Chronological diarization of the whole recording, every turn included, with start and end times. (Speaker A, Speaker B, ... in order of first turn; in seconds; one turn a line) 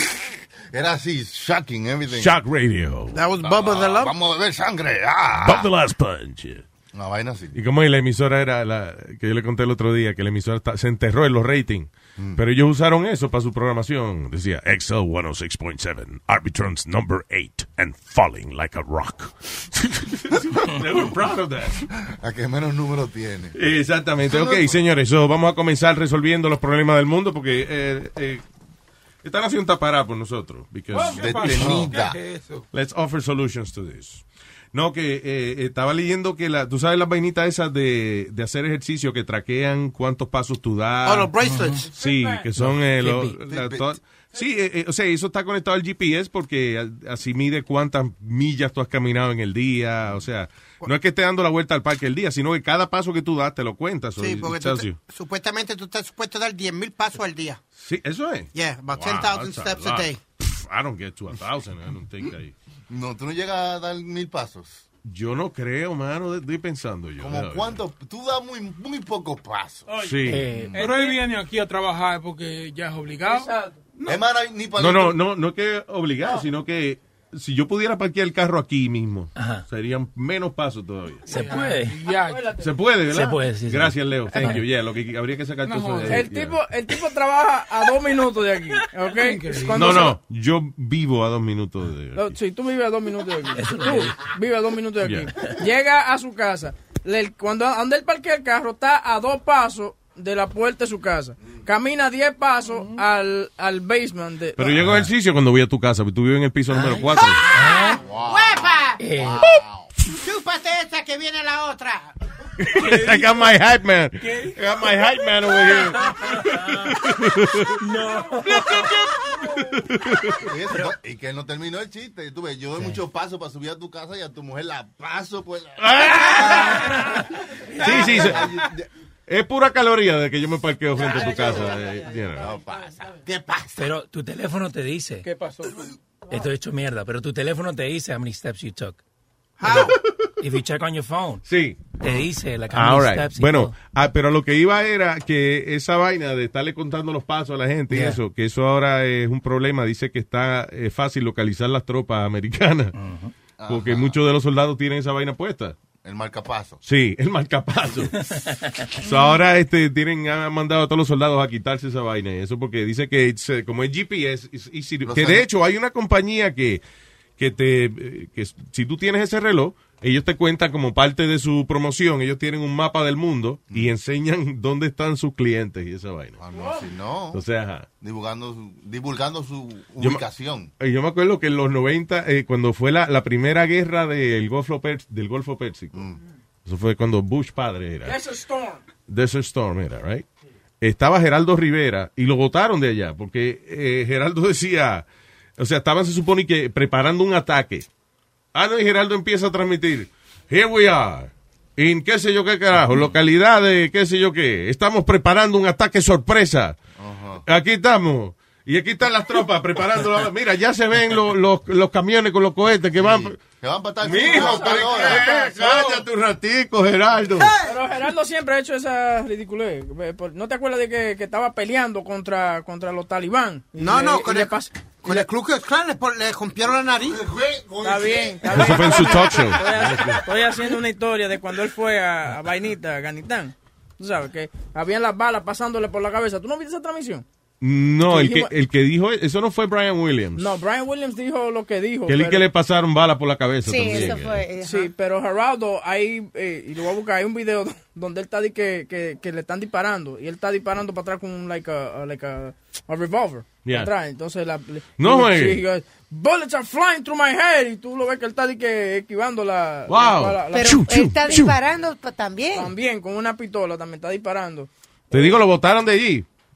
Speaker A: 0.2-2.4
Speaker B: 2.1-3.2
Speaker C: 3.1-4.1
Speaker A: 3.4-5.7
Speaker B: 5.4-6.6
Speaker A: 6.9-7.6
Speaker B: 7.5-21.8
Speaker A: 22.0-23.6
Speaker B: 23.6-28.4
Speaker A: 24.2-24.8
Speaker B: 29.2-31.9
Speaker D: 30.9-32.7
Speaker A: 31.1-32.2
Speaker B: 32.7-41.3
Speaker C: 41.0-41.9
Speaker B: 41.9-55.0
Speaker E: 42.6-43.4
Speaker C: 54.2-57.6
Speaker B: 57.8-62.5
Speaker C: 58.5-60.2
Speaker A: 62.9-64.8
Speaker B: 65.0-67.8
Speaker A: 67.2-69.9
Speaker B: 70.0-70.5
Speaker E: 70.3-70.8
Speaker A: 70.5-70.9
Speaker D: 70.7-73.6
Speaker F: 70.8-71.2
Speaker F: 73.2-73.8
Speaker A: 74.0-75.2
Speaker B: 74.8-81.2
Speaker E: 79.4-79.6
Speaker E: 81.3-82.0
Speaker D: 81.3-82.5
Speaker F: 82.2-82.7
Speaker B: 82.6-86.6
Speaker E: 83.1-84.6
Speaker D: 85.7-86.2
Speaker F: 86.1-90.2
Speaker D: 89.2-90.1
Speaker B: 89.7-92.3
Speaker F: 92.2-104.9
Speaker E: 93.5-94.2
Speaker B: 95.0-95.3
Speaker B: 104.6-107.5
Speaker E: 106.7-108.0
Speaker C: 107.6-109.0
Speaker A: 108.0-109.9
Speaker E: 109.0-109.5
Speaker C: 110.1-112.2
Speaker B: 112.6-117.8
Speaker D: 112.7-113.5
Speaker D: 114.2-114.6
Speaker D: 117.9-119.1
Speaker B: 120.0-120.4
Speaker A: 120.4-127.0
Speaker B: 125.8-127.0
Speaker A: 127.8-128.9
Speaker B: 127.8-128.6
Speaker B: 129.3-132.5
Speaker A: 131.0-133.2
Speaker C: 133.3-133.7
Speaker E: 133.8-135.2
Speaker D: 135.2-135.8
Speaker E: 136.3-139.0
Speaker C: 139.6-139.9
Speaker E: 139.6-141.4
Speaker B: 141.4-141.9
Speaker E: 142.0-143.7
Speaker B: 142.7-152.9
Speaker E: 153.0-153.3
Speaker A: 153.6-154.2
Speaker B: 153.7-155.8
Speaker A: 156.0-156.8
Speaker B: 156.8-158.3
Speaker B: 158.9-166.8
Speaker A: 165.1-165.5
Speaker B: 167.4-176.4
Speaker A: 176.4-177.4
Speaker F: 176.5-176.9
Speaker B: 177.3-177.9
Speaker A: 178.0-180.7
Speaker B: 180.0-180.2
Speaker B: 180.8-186.1
Speaker B: 186.7-188.2
Speaker F: 188.0-188.8
Speaker B: 189.1-190.2
Speaker B: 190.8-195.1
Speaker B: 195.6-197.9
Speaker B: 198.5-206.8
Speaker A: 207.0-207.4
Speaker B: 207.5-213.4
Speaker A: 213.0-215.5
Speaker B: 214.0-217.5
Speaker F: 214.1-215.9
Speaker F: 217.6-225.3
Speaker C: 223.8-227.2
Speaker A: 227.1-229.2
Speaker F: 227.8-237.2
Speaker B: 228.5-230.2
Speaker B: 237.6-240.5
Speaker F: 238.1-238.5
Speaker F: 240.4-242.4
Speaker B: 242.1-244.5
Speaker G: 243.6-244.9
Speaker F: 244.6-260.8
Speaker B: 253.7-253.9
Speaker B: 255.0-255.6
Speaker B: 259.9-261.6
Speaker G: 260.5-262.7
Speaker F: 262.5-265.2
Speaker B: 265.1-266.3